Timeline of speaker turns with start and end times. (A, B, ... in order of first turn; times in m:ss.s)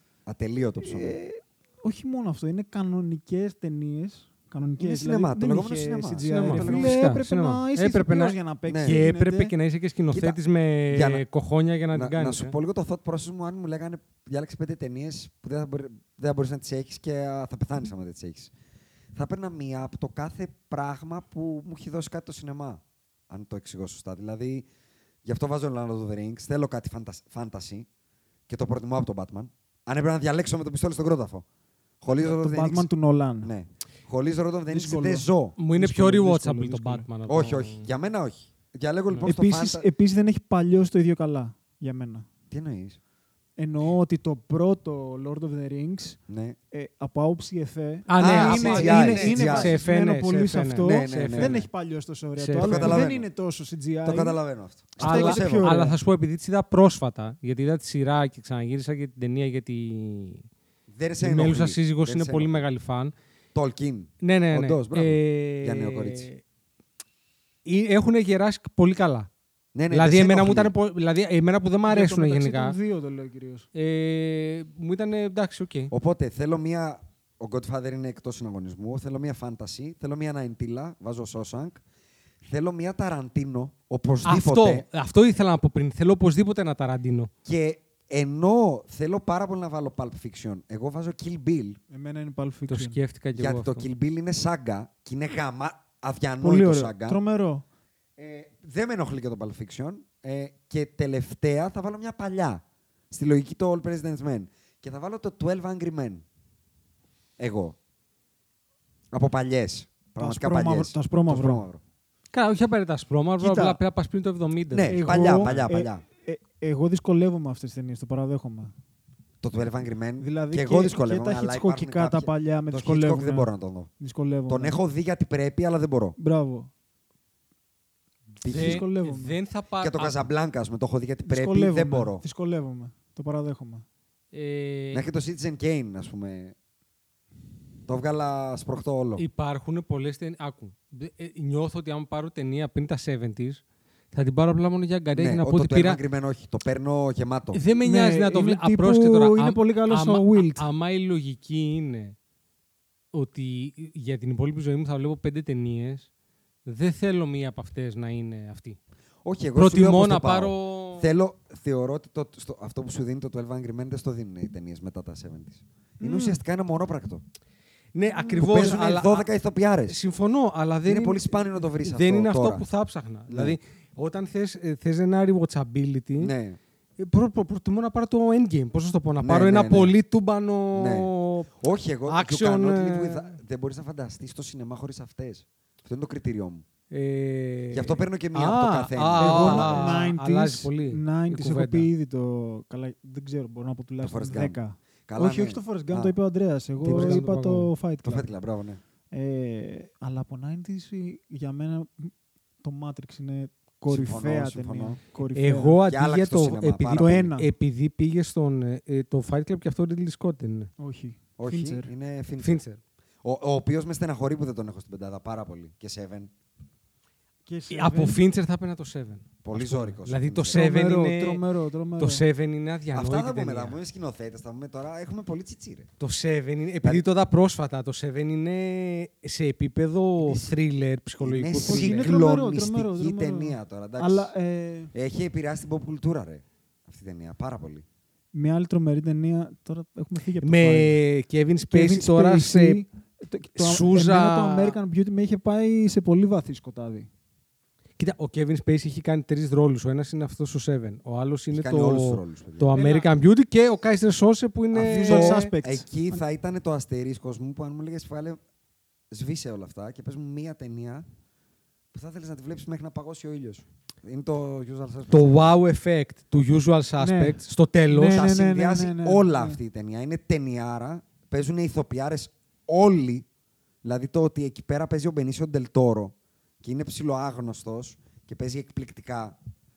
0:00.3-0:01.2 A
0:00.8-0:09.5 B
0:04.8-0:07.0 A
0:06.2-0:12.6 C
0:08.7-0:09.0 A
0:10.1-0:10.4 A
0:10.9-0:11.2 A
0:11.9-0:18.5 A
0:19.1-0:24.7 A
0:25.2-0:27.9 A
0:28.5-0:31.4 A
0:32.0-0:32.9 A
0:32.2-0:33.5 B
0:33.4-0:35.6 A
0:34.7-0:37.1 B
0:35.6-0:37.9 C
0:37.3-0:39.8 A
0:39.2-0:42.3 B
0:42.5-0:43.0 A
0:43.6-0:46.2 B
0:46.3-0:46.6 A
0:46.7-0:54.4 B
0:48.1-0:51.7 C
0:48.2-0:49.8 A
0:50.8-0:51.6 A
0:52.4-0:53.0 C
0:52.6-0:53.3 A
0:54.0-0:55.7 A
0:55.0-0:56.0 B
0:55.0-1:00.5 C
1:00.9-1:02.6 A
1:01.2-1:03.1 C
1:03.5-1:06.3 A
1:04.2-1:06.4 C
1:07.6-1:09.3 C
1:09.7-1:10.7 A
1:09.9-1:12.8 C
1:11.9-1:13.7 B
1:13.7-1:15.9 C
1:15.9-1:21.8 A
1:22.4-1:24.9 A
1:24.2-1:27.3 C
1:27.4-1:31.8 A
1:31.9-1:33.0 B
1:32.7-1:33.9 C
1:33.4-1:37.2 A
1:36.4-1:37.6 B
1:38.2-1:46.2 A
1:47.4-1:47.8 A
1:49.1-1:51.8 A
1:50.2-1:51.7 B
1:52.3-1:55.6 C
1:53.4-1:53.8 B
1:54.7-1:56.0 A
1:54.8-1:58.7 B
1:59.4-2:03.9 A
2:00.2-2:04.8 B
2:04.5-2:06.2 A
2:06.2-2:06.7 B
2:08.4-2:08.8 A
2:08.4-2:10.2 C
2:08.5-2:09.4 B
2:09.8-2:12.2 A
2:11.2-2:13.8 B
2:14.3-2:15.1 C
2:14.9-2:16.6 A
2:17.9-2:19.2 A
2:19.2-2:26.0 C
2:25.2-2:27.6 A
2:27.5-2:32.2 C
2:27.8-2:30.7 B
2:33.1-2:36.1 C
2:36.7-2:38.8 C
2:39.2-2:47.2 A
2:39.6-2:41.1 C
2:46.0-2:46.4 B
2:48.0-2:49.3 C
2:48.2-2:50.0 A
2:49.9-2:56.3 C
2:50.9-2:52.6 A
2:53.3-2:53.6 A
2:56.2-2:56.6 A
2:57.0-3:01.5 C
2:59.2-3:00.0 A
3:00.7-3:06.6 A
3:02.1-3:03.4 C
3:06.9-3:11.9 C
3:07.7-3:10.0 A
3:09.2-3:18.3 B
3:14.0-3:16.1 A
3:16.8-3:17.7 C
3:16.8-3:17.2 A
3:18.0-3:18.8 A
3:19.1-3:22.1 B
3:22.6-3:25.8 B
3:23.9-3:25.0 A
3:25.3-3:30.7 C
3:25.8-3:27.3 A
3:26.9-3:27.5 B
3:30.8-3:31.9 B
3:31.4-3:32.6 A
3:32.4-3:32.8 C
3:33.2-3:36.3 A
3:37.5-3:38.2 B
3:37.7-3:41.4 C
3:39.4-3:40.6 A
3:40.5-3:42.2 B
3:42.0-3:43.8 C
3:42.9-3:45.9 A
3:46.0-3:52.1 C
3:50.2-3:50.6 A
3:51.2-3:54.3 A
3:51.6-3:54.9 B
3:54.9-3:57.8 A
3:58.3-4:01.0 B
4:00.4-4:02.8 C
4:01.7-4:07.1 B
4:03.6-4:04.8 C
4:08.0-4:15.5 C
4:11.5-4:12.8 A
4:12.7-4:13.1 B
4:14.7-4:18.4 A
4:14.8-4:16.2 B
4:19.1-4:21.1 A
4:21.9-4:25.5 A
4:25.1-4:28.3 C
4:27.0-4:29.6 B
4:28.1-4:33.3 A
4:33.8-4:39.4 A